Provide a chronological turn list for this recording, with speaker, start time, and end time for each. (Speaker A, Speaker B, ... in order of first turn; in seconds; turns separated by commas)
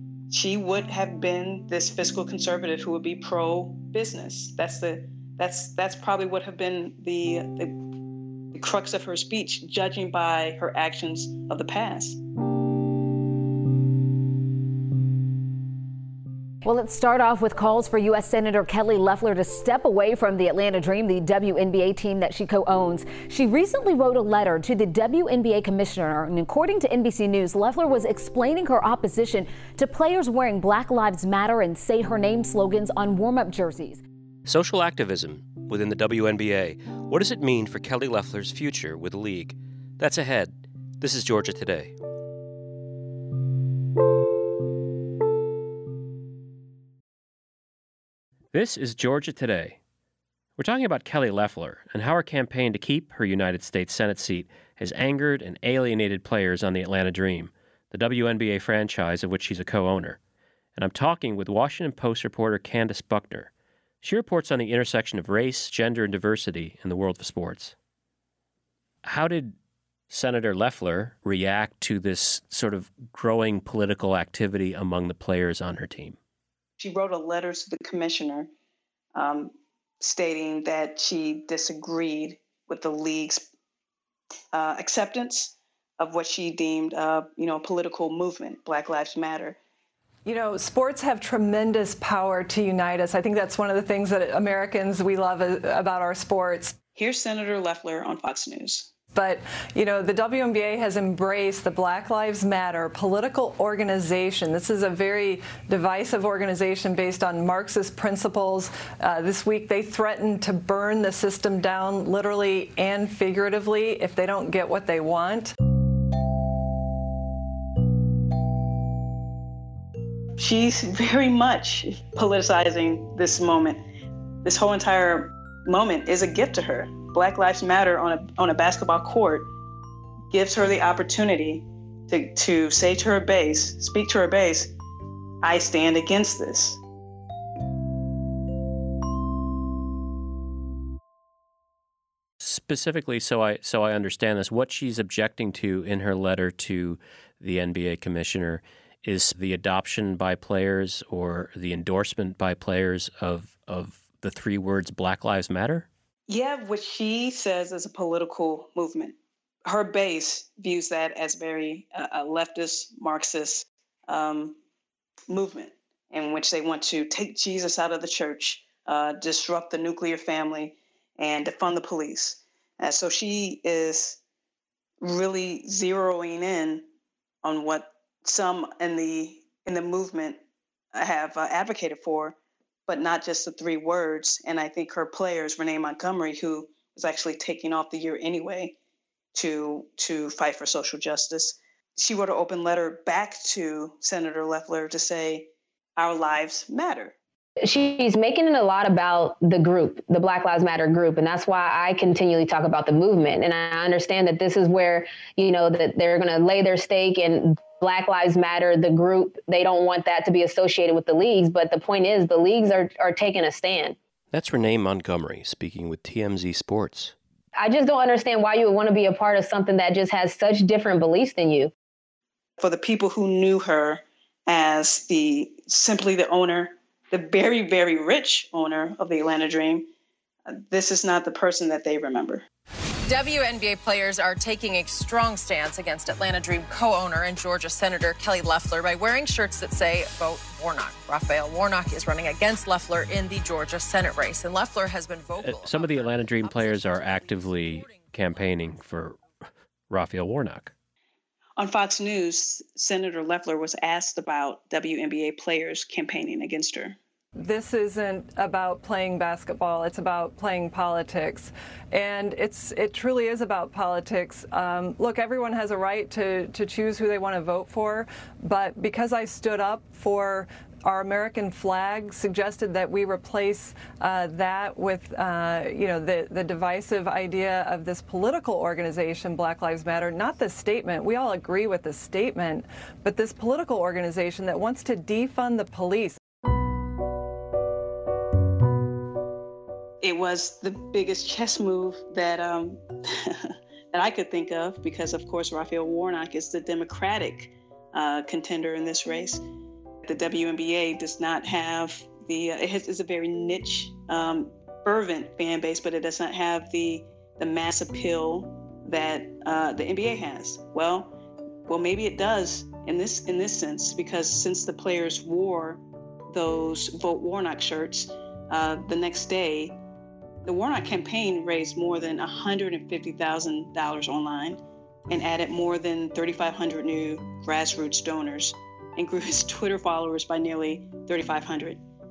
Speaker A: 0.3-7.8, Speaker A: 8.5-12.2, Speaker B: 16.6-34.0, Speaker C: 34.5-41.9, Speaker C: 48.5-49.8, Speaker C: 50.6-60.2, Speaker C: 60.8-63.5, Speaker C: 64.0-67.7, Speaker C: 69.0-69.5, Speaker C: 70.1-76.2, Speaker A: 76.8-78.5, Speaker A: 79.1-83.5, Speaker A: 84.5-89.6, Speaker D: 90.2-96.8, Speaker A: 97.0-98.9, Speaker D: 99.1-115.5, Speaker A: 120.4-123.8, Speaker A: 124.4-129.5, Speaker A: 130.3-134.7, Speaker A: 135.4-136.8, Speaker C: 142.4-155.9, Speaker A: 156.3-164.6, Speaker A: 165.3-174.2, Speaker A: 175.0-176.8, Speaker A: 177.4-180.4, Speaker A: 180.9-182.3, Speaker A: 182.9-188.7, Speaker A: 189.3-197.1, Speaker E: 197.6-213.9, Speaker C: 214.3-217.1, Speaker E: 217.6-221.7, Speaker A: 222.6-229.9, Speaker A: 230.5-232.4, Speaker F: 233.0-248.5, Speaker C: 245.4-249.2, Speaker C: 249.9-250.7, Speaker A: 251.6-257.0, Speaker D: 257.4-286.2, Speaker A: 290.0-299.4, Speaker A: 300.0-311.1, Speaker A: 311.7-319.8, Speaker A: 320.4-331.8